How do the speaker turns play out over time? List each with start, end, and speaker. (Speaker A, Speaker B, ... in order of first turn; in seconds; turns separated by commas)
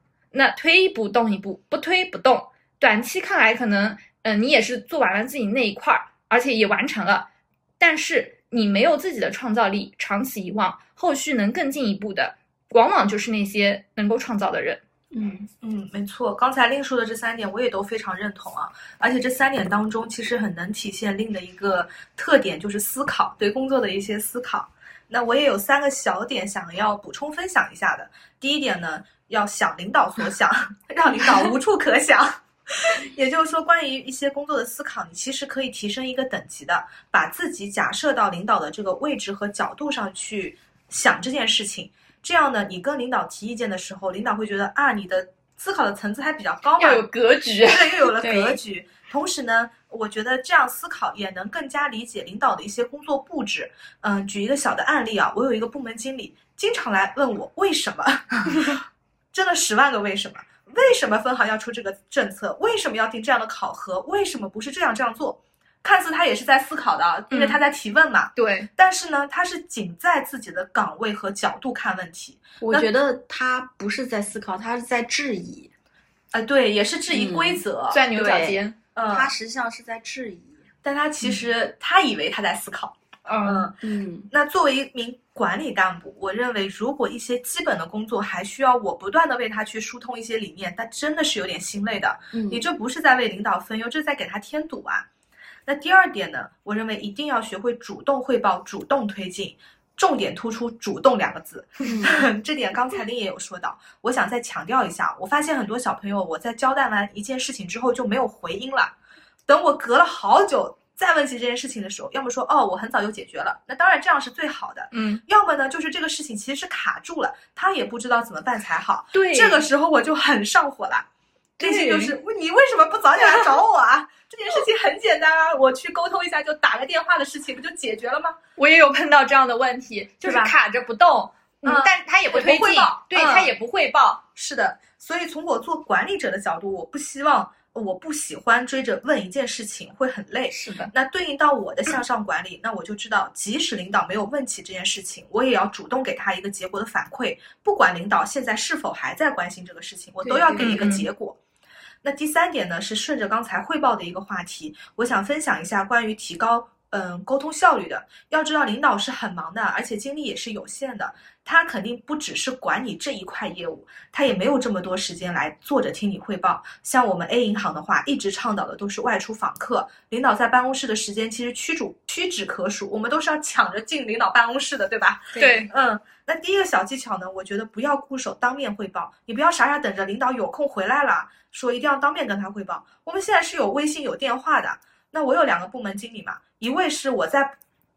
Speaker A: 0.3-7.3, Speaker A: 7.8-14.8, Speaker B: 15.1-15.5, Speaker C: 15.6-72.9, Speaker A: 46.8-48.1, Speaker B: 48.2-48.6, Speaker A: 67.3-67.6, Speaker A: 68.4-68.7, Speaker B: 72.6-75.7, Speaker C: 76.3-78.4, Speaker B: 77.1-77.6, Speaker A: 77.9-78.8, Speaker B: 78.2-80.7, Speaker C: 79.0-79.3, Speaker C: 80.8-83.8, Speaker A: 83.3-83.7, Speaker B: 83.8-84.3, Speaker C: 84.3-95.1, Speaker B: 92.3-92.6, Speaker C: 95.7-109.0, Speaker B: 101.9-102.2, Speaker C: 109.5-121.1, Speaker A: 114.9-115.2, Speaker A: 119.1-119.7, Speaker A: 121.6-122.2, Speaker C: 121.6-128.4, Speaker A: 128.6-134.2, Speaker C: 130.2-130.5, Speaker C: 131.7-133.5, Speaker C: 134.4-151.4, Speaker A: 140.5-140.9, Speaker B: 150.2-150.9, Speaker A: 150.6-151.1, Speaker C: 152.0-187.6, Speaker B: 175.3-175.6, Speaker A: 175.4-175.7